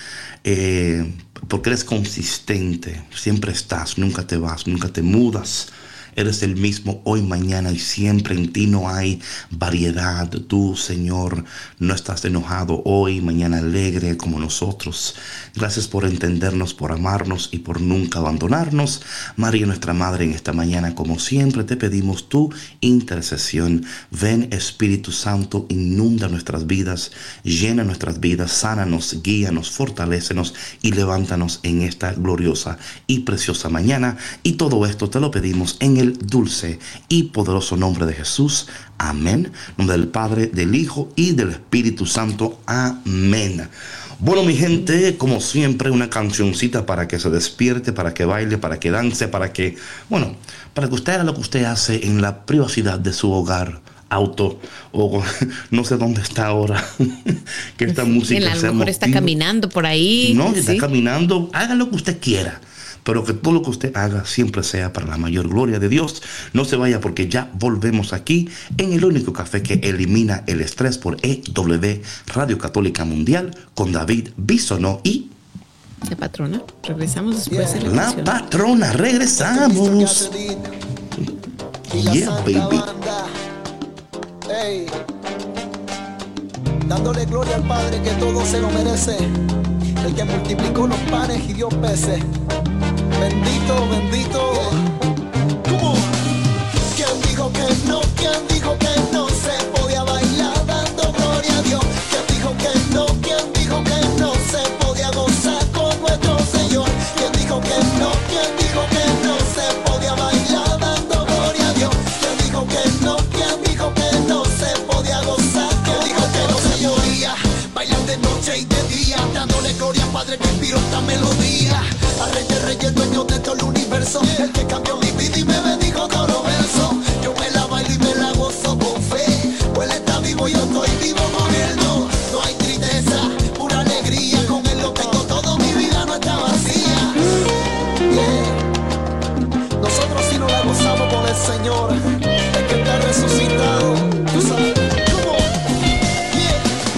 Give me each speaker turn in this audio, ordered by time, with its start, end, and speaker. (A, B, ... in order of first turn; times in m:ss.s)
0:00.4-0:59.4 A
0:57.9-1:00.9 B
1:00.2-1:15.3 A
1:16.1-1:18.4 B
1:17.5-1:17.8 C
1:17.8-1:20.3 A
1:19.4-1:20.8 C
1:21.9-1:22.9 A
1:21.9-1:23.3 C
1:24.5-1:24.9 C
1:26.9-1:29.3 C
1:30.0-1:32.2 C
1:33.2-1:34.8 C
1:35.7-1:36.1 C
1:36.9-2:17.2 C
2:18.1-2:18.6 C
2:19.8-2:22.0 C
2:22.5-2:25.5 C
2:26.3-2:26.6 C